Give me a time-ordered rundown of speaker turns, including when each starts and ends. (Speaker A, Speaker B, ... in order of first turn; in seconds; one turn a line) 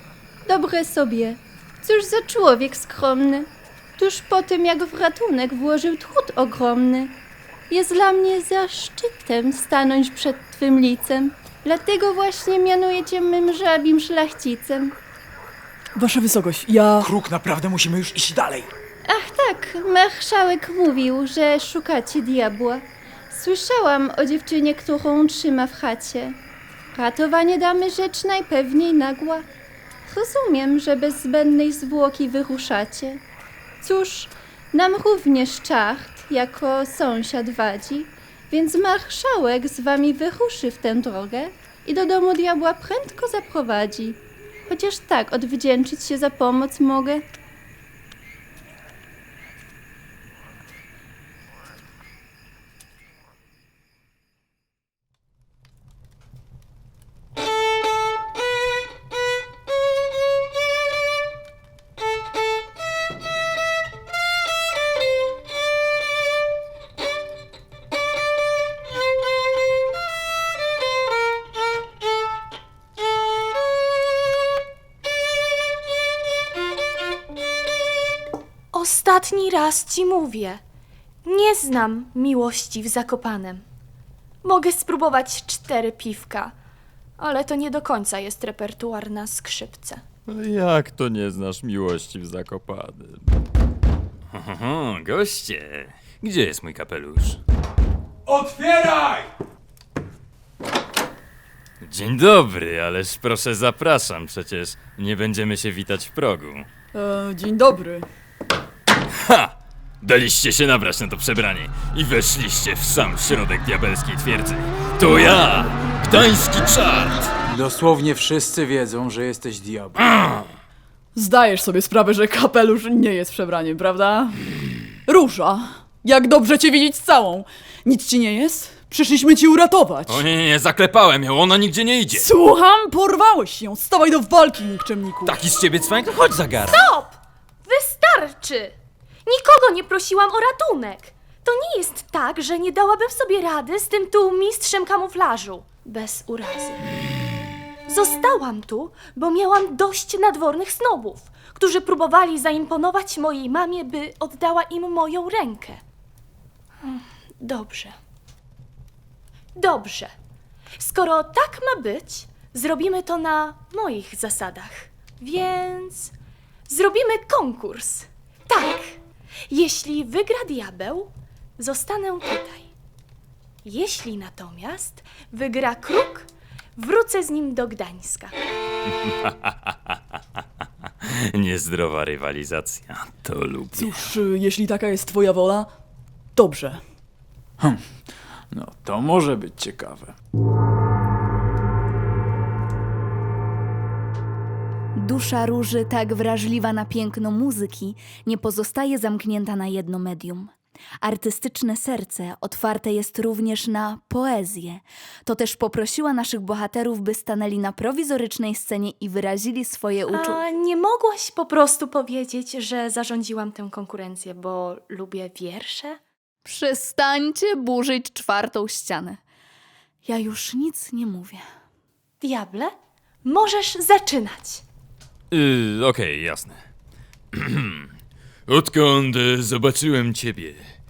Speaker A: 0.5-3.5
Speaker A: 4.0-7.1
Speaker A: 7.7-14.9
Speaker B: 16.0-17.1
Speaker C: 17.0-18.7
Speaker A: 19.1-26.4
Speaker A: 26.9-29.4
Speaker A: 30.1-33.2
Speaker A: 33.8-47.2
Speaker D: 78.7-80.6
Speaker D: 81.2-83.6
Speaker D: 84.4-86.5
Speaker D: 87.2-90.0
Speaker E: 90.3-93.2
Speaker E: 94.3-97.4
Speaker C: 98.3-99.3
Speaker E: 101.8-106.7
Speaker B: 106.9-108.1
Speaker E: 109.3-117.3
Speaker C: 117.5-120.0
Speaker E: 120.1-120.5
Speaker B: 121.2-124.4
Speaker B: 125.1-130.3
Speaker E: 130.1-132.3
Speaker B: 132.1-135.4
Speaker E: 135.2-136.8
Speaker D: 136.7-146.8
Speaker D: 147.9-155.8
Speaker D: 156.8-157.9
Speaker D: 159.6-160.1
Speaker D: 160.8-166.1
Speaker D: 166.7-169.0
Speaker D: 169.5-172.7
Speaker D: 173.6-178.3
Speaker E: 179.1-179.7
Speaker E: 181.1-184.0
Speaker B: 183.7-185.7
Speaker B: 186.4-186.8
Speaker C: 188.5-190.1
Speaker F: 195.0-210.4
Speaker D: 210.1-216.0
Speaker F: 216.4-219.2
Speaker F: 220.1-221.4
Speaker D: 222.2-224.6
Speaker E: 225.3-226.6
Speaker E: 227.3-227.9
Speaker E: 228.5-230.6